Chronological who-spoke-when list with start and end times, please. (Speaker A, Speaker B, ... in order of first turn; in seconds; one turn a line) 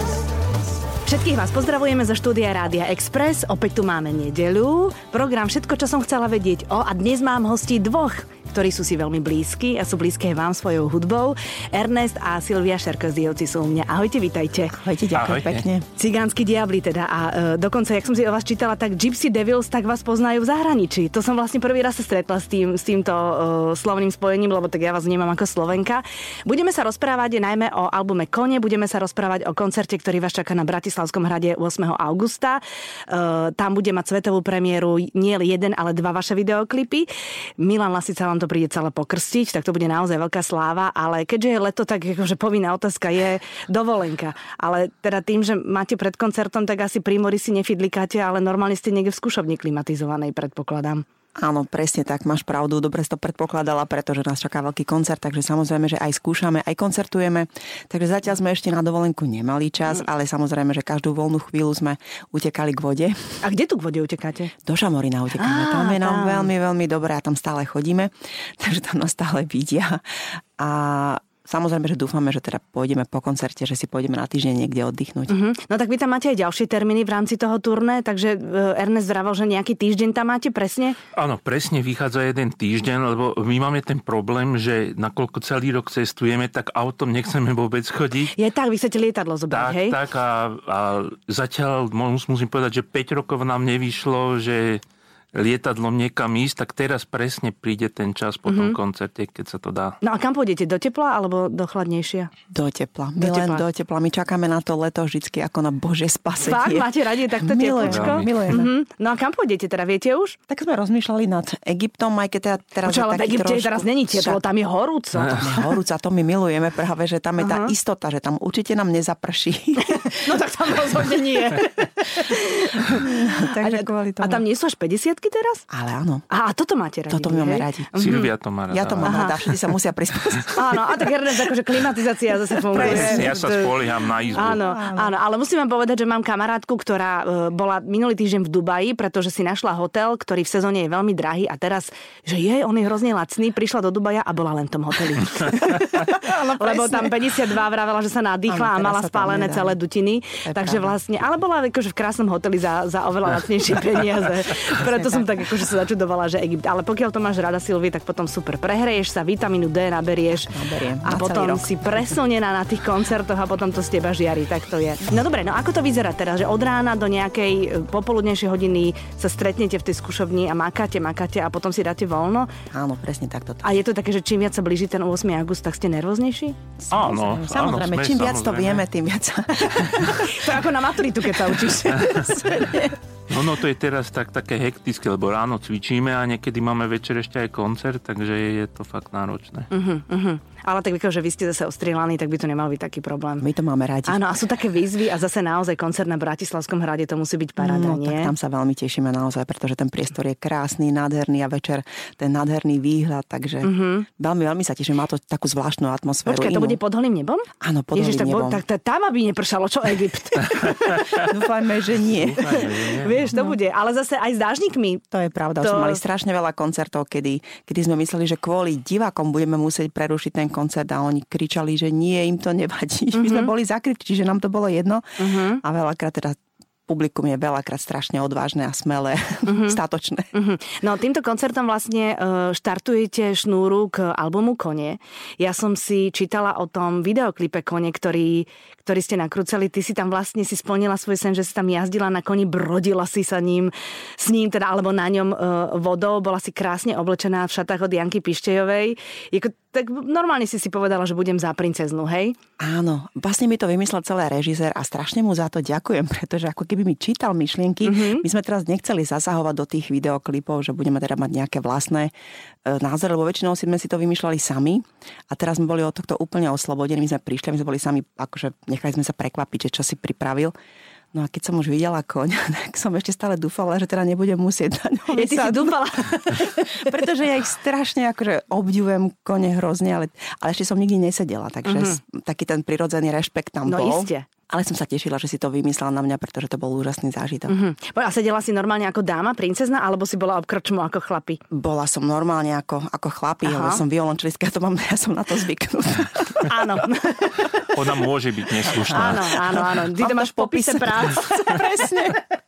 Speaker A: 1.0-14.8
Speaker B: 14.7-15.9
Speaker C: 15.2-15.7
Speaker A: 15.9-51.0
Speaker B: 51.4-63.4
Speaker A: 63.4-64.5
Speaker B: 64.7-70.0
Speaker A: 65.4-66.5
Speaker B: 70.6-75.3
Speaker A: 75.3-81.0
Speaker C: 81.1-88.4
Speaker A: 88.3-90.0
Speaker C: 89.5-94.8
Speaker C: 95.3-100.0
Speaker A: 98.5-98.8
Speaker A: 100.0-102.3
Speaker B: 102.5-108.7
Speaker A: 103.2-103.7
Speaker A: 106.4-110.4
Speaker C: 107.8-108.3
Speaker B: 110.5-114.4
Speaker A: 112.8-115.4
Speaker B: 115.2-120.2
Speaker C: 115.3-115.6
Speaker A: 117.4-117.8
Speaker A: 119.8-125.7
Speaker B: 122.9-124.4
Speaker B: 125.7-126.2
Speaker A: 126.3-128.3
Speaker B: 127.1-128.0
Speaker C: 128.0-129.3
Speaker B: 128.7-130.9
Speaker A: 129.0-129.4
Speaker A: 130.5-133.7
Speaker B: 132.7-135.2
Speaker C: 132.7-134.6
Speaker A: 134.3-172.5
Speaker B: 146.0-147.3
Speaker B: 148.5-149.8
Speaker B: 150.4-151.0
Speaker B: 154.8-155.3
Speaker B: 160.5-162.2
Speaker B: 172.7-173.7
Speaker A: 173.6-176.6
Speaker B: 176.8-180.5
Speaker C: 176.9-178.9
Speaker A: 179.6-182.5
Speaker B: 181.5-183.0
Speaker C: 183.3-189.7
Speaker A: 189.7-193.4
Speaker B: 193.4-194.3
Speaker A: 194.1-198.3
Speaker B: 197.6-206.8
Speaker A: 203.6-204.1
Speaker A: 206.3-211.0
Speaker B: 207.6-208.6
Speaker B: 211.2-212.6
Speaker C: 212.1-213.3
Speaker A: 212.4-215.0
Speaker B: 215.1-230.3
Speaker A: 215.6-216.0
Speaker A: 223.1-223.5
Speaker A: 225.2-225.6
Speaker A: 229.5-229.8
Speaker A: 230.3-252.4
Speaker B: 252.6-262.1
Speaker A: 257.8-258.3
Speaker B: 262.6-270.5
Speaker B: 271.1-275.8
Speaker A: 275.1-277.0
Speaker B: 276.8-287.5
Speaker A: 281.7-282.0
Speaker A: 283.6-284.3
Speaker A: 287.5-291.4
Speaker B: 291.5-296.6
Speaker A: 293.4-293.8
Speaker A: 296.5-297.6
Speaker C: 297.7-299.4
Speaker B: 298.7-302.2
Speaker A: 298.8-301.7